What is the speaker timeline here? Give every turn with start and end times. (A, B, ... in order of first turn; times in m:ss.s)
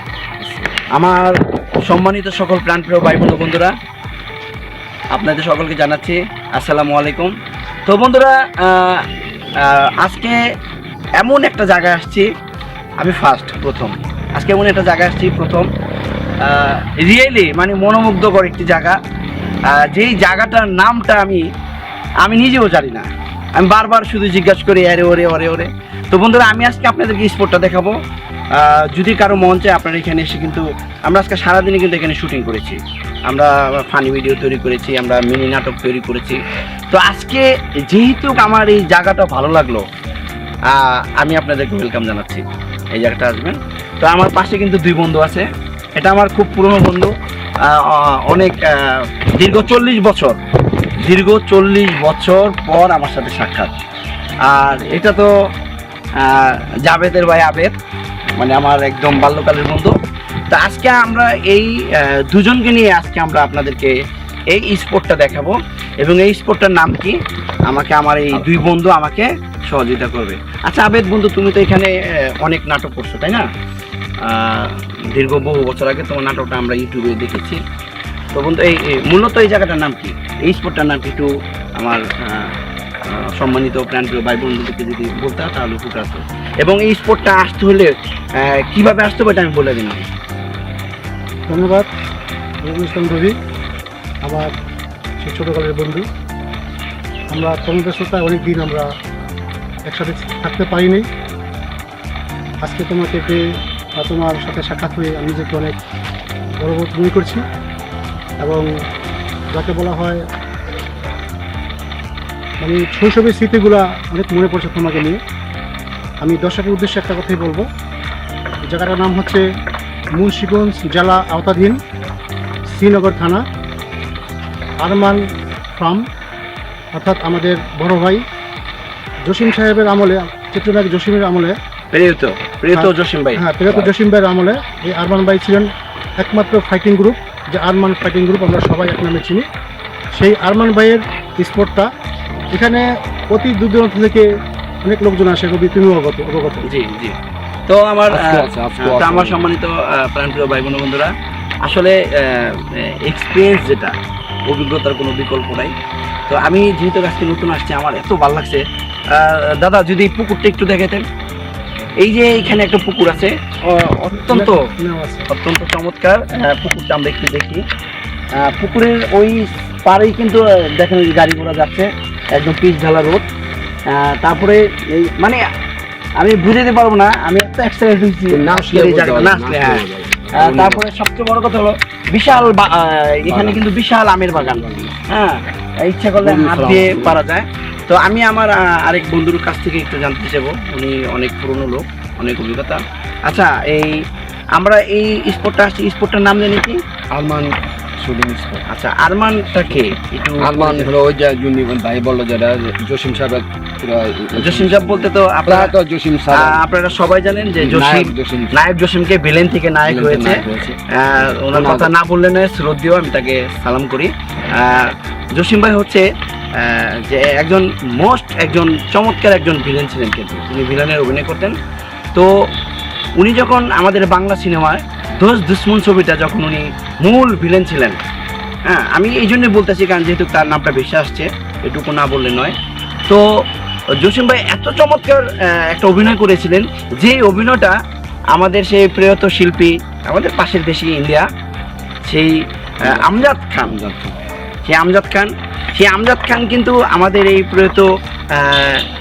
0:00.9-0:03.8 A
0:05.1-0:07.3 A
0:07.9-0:09.0 A
0:09.6-0:10.4 A
0:11.2-0:12.3 A
0:13.0-0:15.7 A
0:16.4-0:19.0 A
0:19.7-0:21.4 A
0:22.2-0:27.9 A
0:28.6-0:36.4 A
0:36.9-0:39.8 A
0:40.7-0:42.4 A
0:42.9-0:45.4 A
0:46.0-0:47.1 A
0:47.6-0:50.4 A
0:51.0-0:53.7 A
0:54.4-0:55.3 A
0:56.2-0:57.7 A
0:58.4-0:59.9 A
1:00.5-1:03.9 A
1:04.5-1:07.2 A
1:07.7-1:13.5 A
1:14.2-1:17.6 A
1:18.3-1:22.6 A
1:23.1-1:30.1 A
1:31.5-1:31.9 B
1:32.6-1:33.3 B
1:34.2-1:34.5 B
1:35.2-1:36.0 B
1:37.3-1:38.9 B
1:39.9-1:41.1 B
1:42.6-1:43.4 B
1:44.0-1:45.8 B
1:46.6-1:47.4 B
1:48.4-1:48.7 B
1:49.5-1:50.2 B
1:52.6-1:55.2 B
1:56.2-1:57.7 B
1:58.7-1:59.4 B
2:00.2-2:01.8 B
2:02.7-2:03.4 B
2:04.8-2:05.2 B
2:05.8-2:06.0 B
2:07.0-2:08.2 B
2:09.3-2:11.5 B
2:11.9-2:13.9 A
2:12.7-2:19.4 B
2:20.2-2:21.9 B
2:22.5-2:24.3 B
2:24.8-2:26.6 B
2:26.6-2:27.2 A
2:27.7-2:31.1 A
2:28.1-2:29.4 C
2:31.6-2:33.9 A
2:34.5-2:35.7 A
2:36.3-2:41.0 A
2:42.0-2:44.6 A
2:44.2-2:45.3 B
2:45.3-2:47.6 A
2:48.4-2:53.2 A
2:53.9-2:55.4 A
2:56.2-2:59.8 A
2:58.3-3:00.8 C
3:00.4-3:14.0 A
3:03.3-3:03.6 C
3:04.3-3:04.9 C
3:06.2-3:07.2 C
3:14.6-3:16.8 A
3:17.1-3:18.6 C
3:18.7-3:20.9 A
3:20.4-3:28.6 C
3:24.4-3:25.7 A
3:26.3-3:36.0 A
3:29.8-3:30.8 C
3:31.4-3:31.9 C
3:36.6-3:41.5 A
3:43.2-3:48.0 A
3:48.7-3:52.6 A
3:54.0-3:57.8 A
3:58.3-4:01.3 A
4:02.0-4:03.8 A
4:02.8-4:04.2 C
4:04.6-4:08.8 A